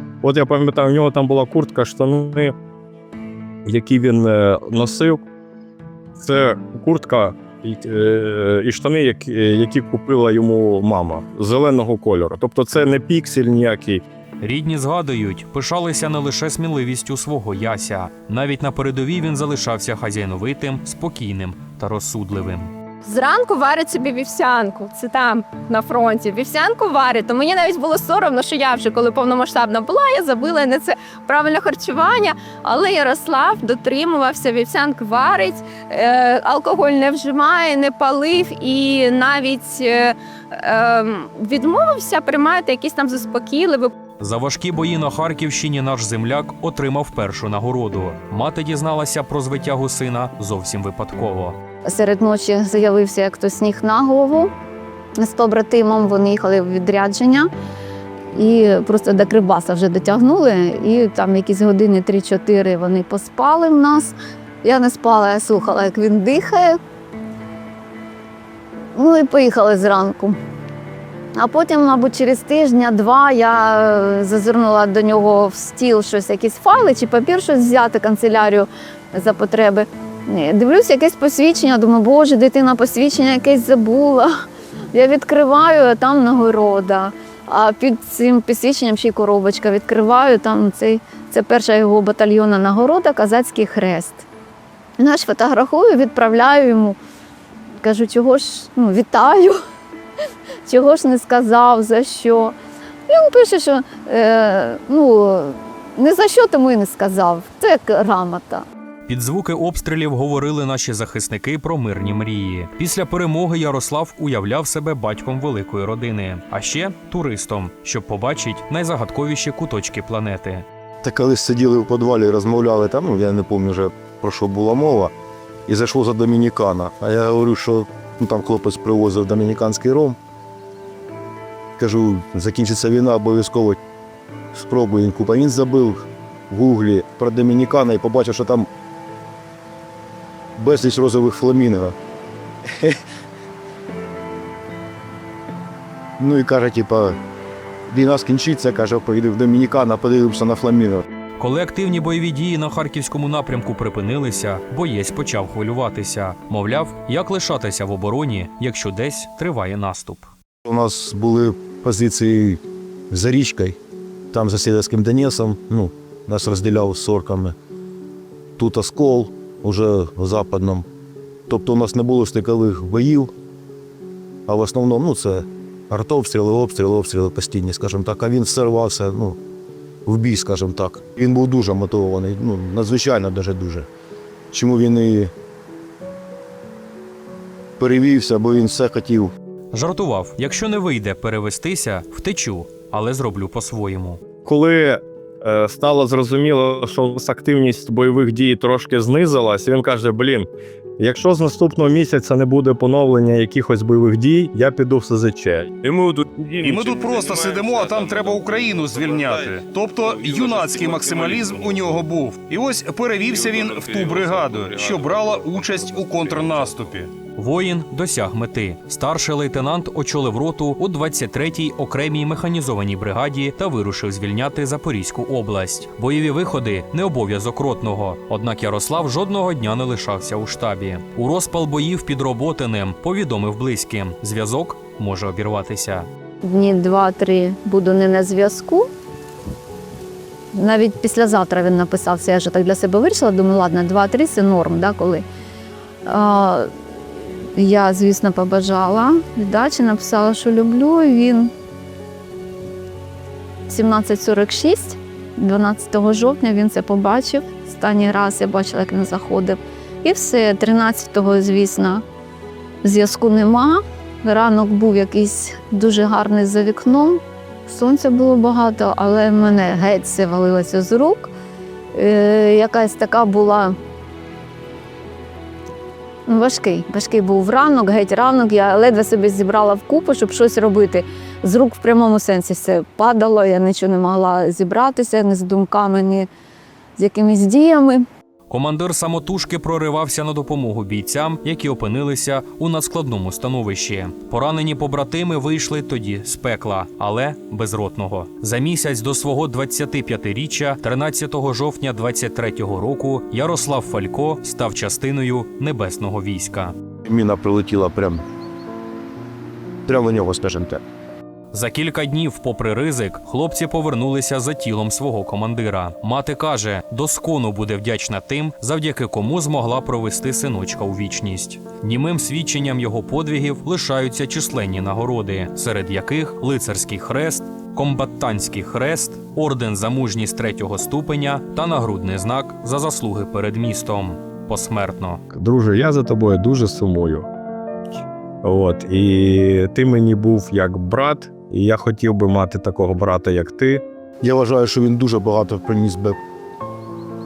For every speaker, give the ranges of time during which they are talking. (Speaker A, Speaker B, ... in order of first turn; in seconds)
Speaker A: 0.2-2.5, 3.6-5.2, 6.2-14.0, 194.4-200.5, 201.0-205.8, 335.3-337.3, 338.4-343.8
Speaker B: 14.4-22.7, 44.2-51.6, 109.1-120.6, 151.4-160.3, 189.7-194.2, 217.3-236.1, 288.5-306.7, 311.5-335.2
Speaker C: 23.0-43.9
Speaker D: 51.9-54.5, 55.2-57.5, 58.3-66.8, 68.9-70.4, 71.4-84.3, 84.9-94.2, 95.0-97.0, 97.8-99.6, 100.6-102.5, 103.1-108.6, 236.4-238.9, 240.6-245.2, 246.1-246.7, 247.5-251.5, 253.7-262.0, 262.8-271.3, 271.9-273.7, 276.2-286.3, 286.9-288.0
Speaker E: 121.0-125.1, 125.7-130.2, 131.8-133.8, 134.5-138.7, 140.6-141.9, 146.2-147.2, 147.9-151.1, 160.6-163.8, 164.3-167.5, 168.6-170.8, 171.5-173.3, 174.5-179.4, 180.1-183.9, 184.5-185.3, 187.8-189.3, 307.0-308.2, 309.9-310.8, 344.2-346.2
Speaker F: 206.6-217.1